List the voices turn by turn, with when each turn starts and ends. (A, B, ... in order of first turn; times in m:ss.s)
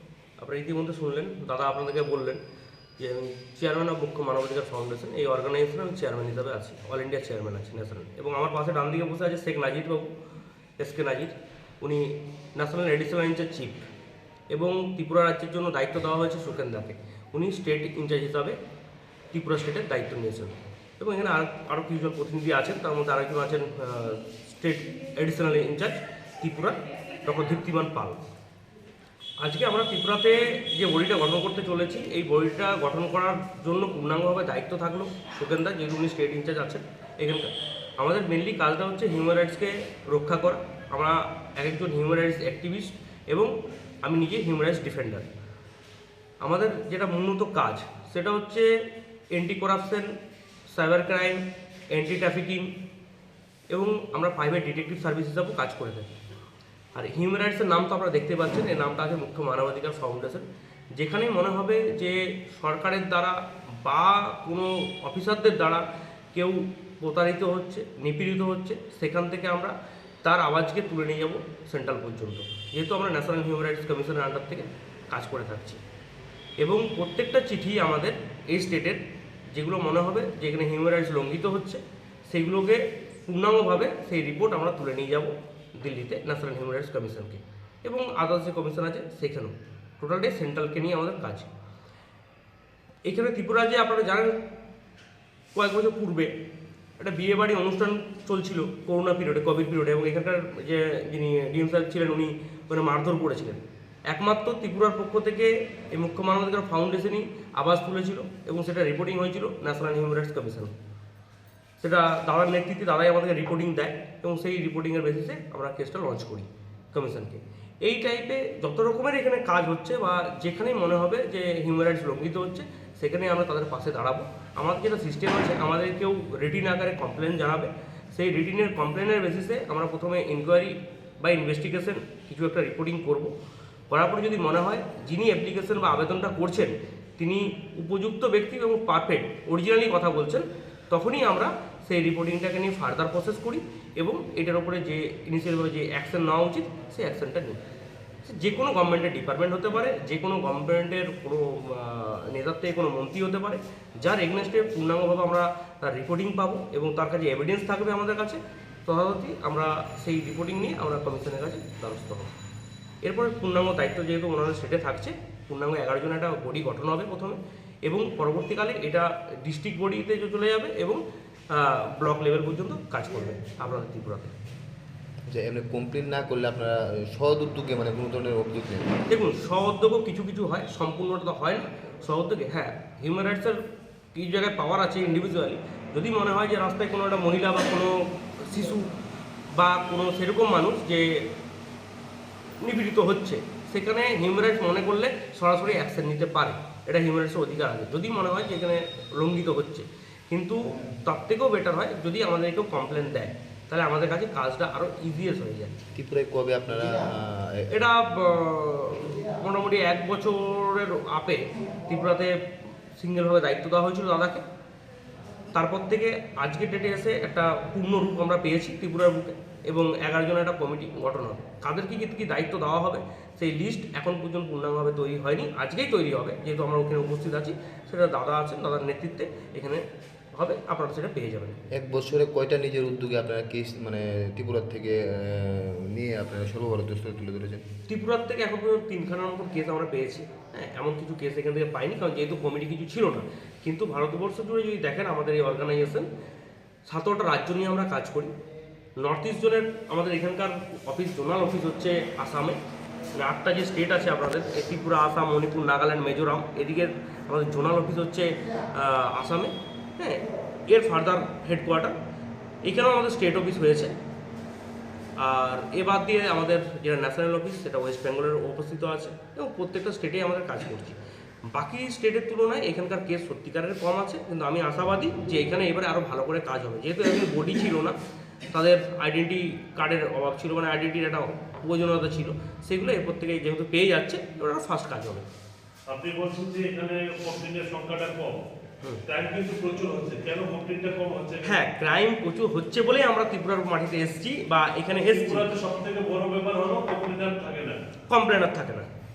0:00.4-0:02.4 A
0:03.0-0:10.1 A
0:10.8-0:13.8 A
0:14.5-0:18.6 A
0:19.3-0:28.2 A
0:29.4-0:45.3 A
0:46.4-0:48.7 A
0:49.3-0:50.1 A
0:50.7-0:52.7 A
0:53.7-0:56.1 A
0:57.0-1:05.8 A
1:06.3-1:15.8 A
1:16.6-1:19.0 A
1:19.5-1:31.5 A
1:33.0-1:34.4 A
1:35.6-1:36.3 A
1:37.0-1:50.7 A
1:51.8-2:13.3 A
2:13.9-2:27.6 A
2:28.2-2:42.3 A
2:43.0-2:54.3 A
2:55.3-2:59.0 B
2:59.1-3:03.6 A
3:04.1-3:08.9 A
3:09.5-3:11.2 A
3:12.6-3:25.7 A
3:25.9-3:27.8 B
3:27.7-3:32.3 A
3:33.0-3:34.4 A
3:35.5-3:51.6 A
3:51.7-3:57.7 B
3:57.9-4:06.1 A
4:06.9-4:08.3 A
4:09.0-4:12.6 A
4:13.2-4:21.9 A
4:22.6-4:24.0 A
4:25.2-4:31.0 A
4:31.5-4:38.0 A
4:38.5-4:45.3 A
4:45.9-4:48.4 C
4:49.0-4:51.6 C
4:51.4-4:55.5 A
4:55.0-4:57.8 C
4:58.1-4:58.9 A